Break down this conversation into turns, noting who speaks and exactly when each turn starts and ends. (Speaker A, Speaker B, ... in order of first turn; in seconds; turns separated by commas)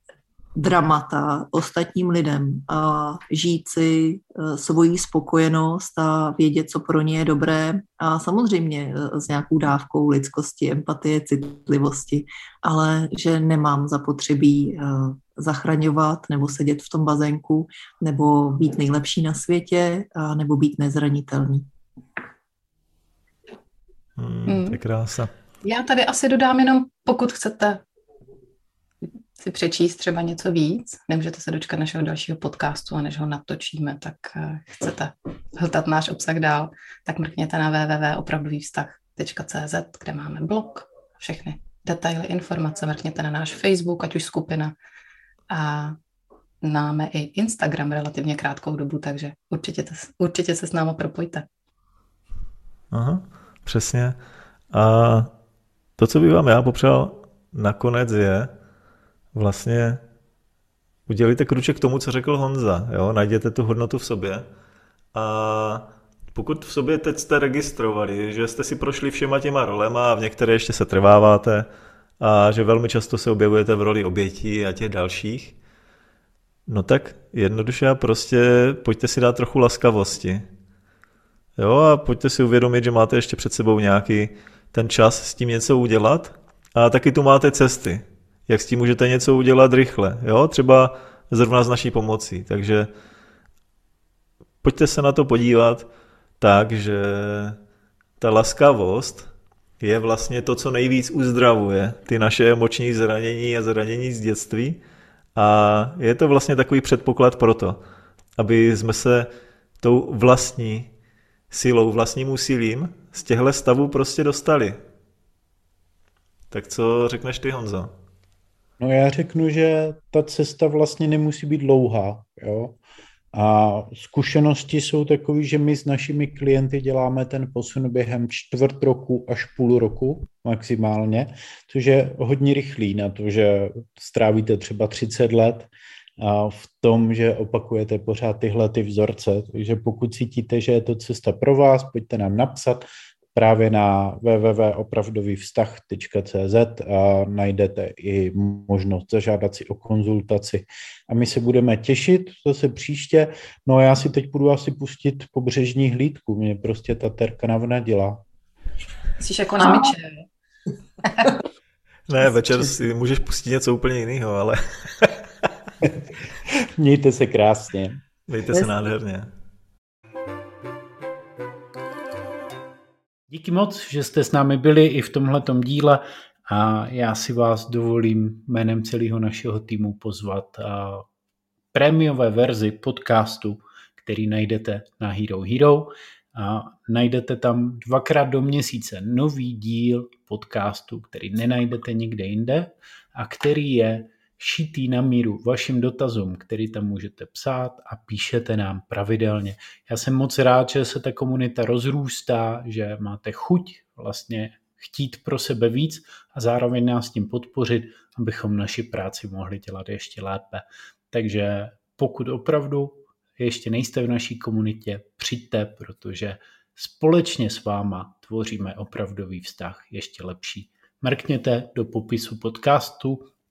Speaker A: 0.6-21.7, Speaker B: 24.2-25.3, Speaker C: 24.5-24.8, Speaker C: 25.6-27.8, Speaker C: 29.4-44.7, Speaker C: 45.5-46.0, Speaker C: 46.6-51.5, Speaker B: 52.9-54.2, Speaker B: 54.7-55.3, Speaker B: 56.0-58.5, Speaker B: 59.3-60.0, Speaker B: 61.1-64.5, Speaker B: 65.1-71.7, Speaker B: 72.2-75.5, Speaker B: 76.7-80.4, Speaker B: 81.6-92.9, Speaker B: 94.6-95.9, Speaker B: 96.4-97.6, Speaker B: 98.2-99.3, Speaker B: 99.8-104.8, Speaker B: 105.3-107.8, Speaker B: 108.4-109.3, Speaker B: 109.8-110.9, Speaker B: 111.5-114.8, Speaker B: 116.5-117.9, Speaker D: 118.8-122.8, Speaker D: 123.3-158.2, Speaker C: 159.2-160.3, Speaker A: 159.6-159.9, Speaker B: 162.1-165.2, Speaker D: 166.8-168.0, Speaker B: 168.3-169.3, Speaker E: 173.3-181.1, Speaker E: 181.7-223.3